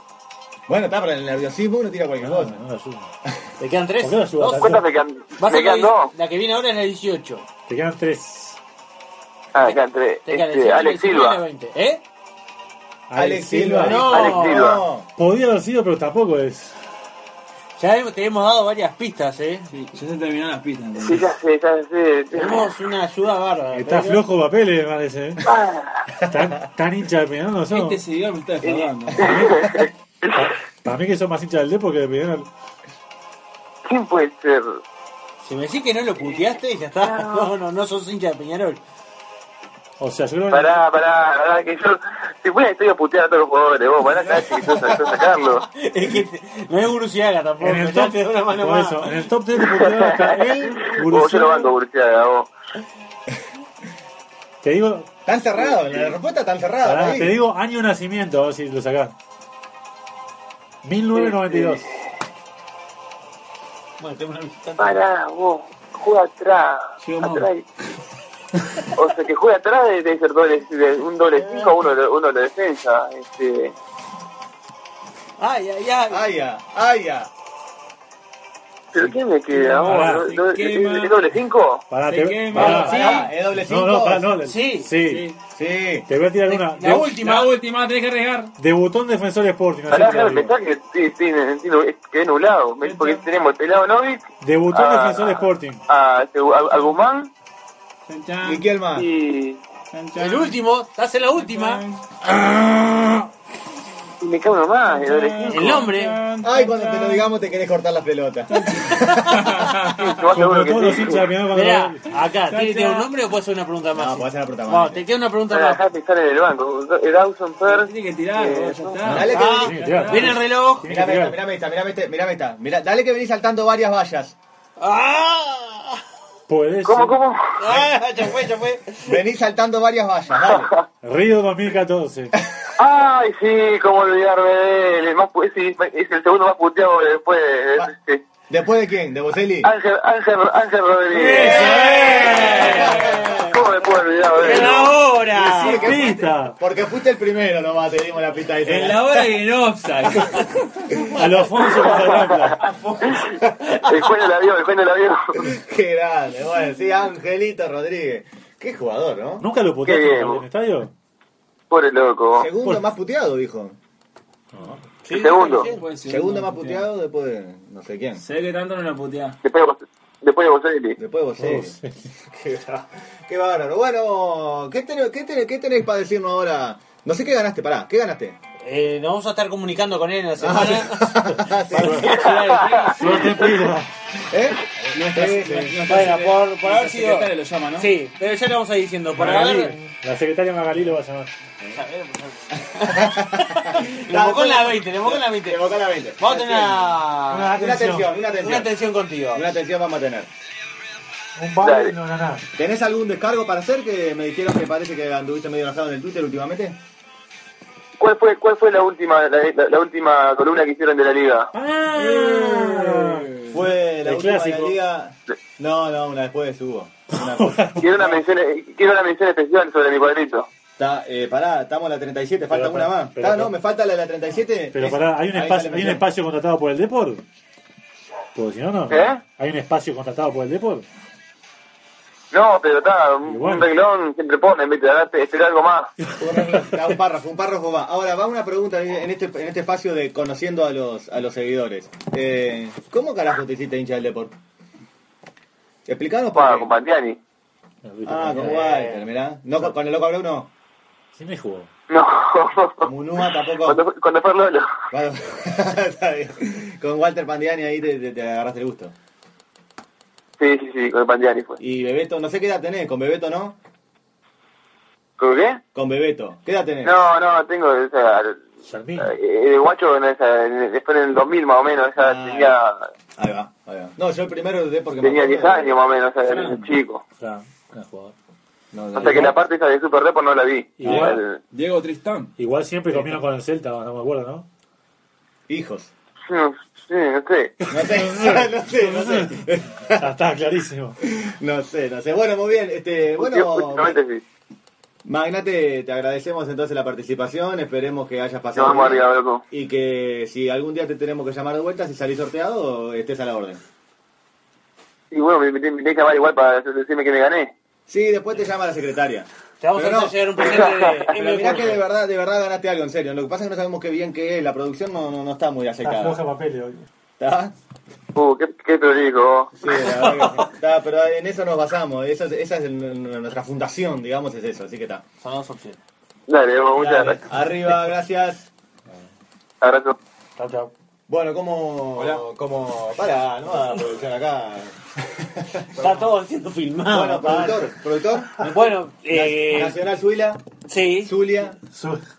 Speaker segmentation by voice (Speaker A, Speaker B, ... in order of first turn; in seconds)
Speaker A: 0.7-2.6, 13.2-15.1, 44.3-44.9, 55.3-57.4, 76.1-77.3, 82.5-84.3, 85.5-86.1, 98.4-99.1, 106.4-109.7, 114.0-115.0, 119.1-119.8, 120.8-124.4, 129.1-130.7, 138.5-139.7, 141.3-143.5, 145.3-149.2, 151.8-152.6, 153.4-153.7, 155.4-159.5, 162.4-163.8, 166.1-168.2, 171.0-171.8, 172.3-178.4, 180.4-182.1, 184.3-184.6, 185.1-185.8, 192.8-196.9, 197.5-198.7, 199.3-200.3, 202.6-206.8, 213.5-218.2, 220.8-226.1, 236.2-244.3, 245.9-246.7, 248.1-250.5, 252.8-253.8, 254.9-258.9, 261.6-263.6, 265.8-267.1, 272.0-272.6, 273.2-275.8, 278.7-279.3, 282.9-283.2, 285.5-285.9, 287.7-290.1, 291.1-294.0, 295.1-303.6, 307.9-316.2, 317.2-317.5, 319.6-325.0, 326.8-328.5, 331.1-336.1, 336.9-338.4, 339.1-340.4, 341.0-341.6
Speaker B: 2.2-3.1, 4.0-4.8, 7.7-8.6, 13.1-14.0, 15.2-16.8, 23.7-25.4, 26.2-28.0, 29.2-29.7, 30.4-32.5, 40.0-40.8, 47.6-51.7, 54.6-55.1, 56.8-59.1, 60.8-61.9, 79.9-80.3, 81.9-85.3, 86.1-87.2, 88.6-90.5, 94.4-95.8, 110.3-112.1, 119.2-121.4, 126.5-127.1, 131.0-132.4, 141.4-142.3, 145.7-146.6, 151.2-152.6, 159.4-160.9, 164.6-164.8, 171.4-171.9, 181.7-182.2, 183.0-183.9, 189.1-191.3, 197.3-198.1, 201.4-202.4, 211.5-213.3, 214.1-214.8, 217.2-217.9, 222.5-223.5, 224.7-227.2, 228.3-230.9, 233.2-233.7, 236.0-236.7, 247.8-248.8, 251.2-251.7, 268.6-269.1, 277.2-278.1, 279.0-279.3, 280.8-281.2, 282.4-284.5, 287.6-289.4, 290.0-291.0, 315.9-316.9, 341.6-342.0
Speaker C: 3.6-4.7, 5.4-7.5, 9.6-12.0, 13.8-14.7, 17.8-19.7, 22.3-24.2, 35.4-38.8, 45.7-49.3, 64.0-65.0, 75.4-76.3, 82.5-83.3, 84.5-84.9, 86.5-87.5, 100.2-101.8, 105.5-106.2, 111.5-115.8, 119.1-120.9, 124.8-126.0, 127.6-129.2, 141.1-143.6, 144.4-145.9, 165.1-165.8, 178.6-181.1, 181.7-183.4, 185.9-189.8, 191.7-195.6, 196.2-197.5, 198.4-199.5, 248.3-249.0, 309.6-311.8, 319.8-320.4, 325.2-325.8, 330.4-330.7, 335.8-337.7, 338.4-339.8, 340.7-341.1
Speaker D: 4.5-6.1, 9.5-11.4, 13.9-14.8, 21.0-22.7, 25.4-26.1, 28.6-30.5, 33.9-34.8, 40.5-45.6, 49.6-52.5, 61.2-61.8, 64.8-67.7, 69.0-73.7, 78.9-81.8, 89.9-97.3, 99.0-99.6, 104.2-105.8, 110.1-111.3, 115.5-119.1, 126.8-127.5, 130.5-130.8, 132.8-138.2, 139.6-141.4, 143.5-145.0, 153.1-155.4, 159.8-160.4, 161.7-162.5, 165.1-165.7, 169.4-171.0, 201.6-201.9, 208.0-211.5, 217.8-220.5, 228.9-229.2, 232.3-235.9, 246.3-247.2, 251.9-252.9, 253.6-254.7, 260.4-261.6, 265.2-265.6, 266.8-268.5, 269.0-272.9, 275.0-277.0, 279.0-281.4, 286.3-287.6, 293.2-294.2, 298.6-299.4, 305.1-307.5, 310.4-310.9, 318.1-319.5, 326.3-327.2, 329.6-330.0
Speaker E: 19.7-21.3, 27.7-29.5, 67.0-67.5, 79.5-81.2, 82.1-83.2, 85.0-85.4, 87.2-88.5, 92.8-93.2, 98.1-98.6, 99.9-100.6, 101.3-102.1, 104.8-107.3, 108.5-110.2, 112.5-113.1, 117.6-120.4, 141.4-142.9, 148.6-150.7, 152.6-153.3, 165.6-166.9, 168.2-169.4, 184.9-187.9, 211.9-213.5, 276.3-276.7, 278.9-279.3, 280.8-282.3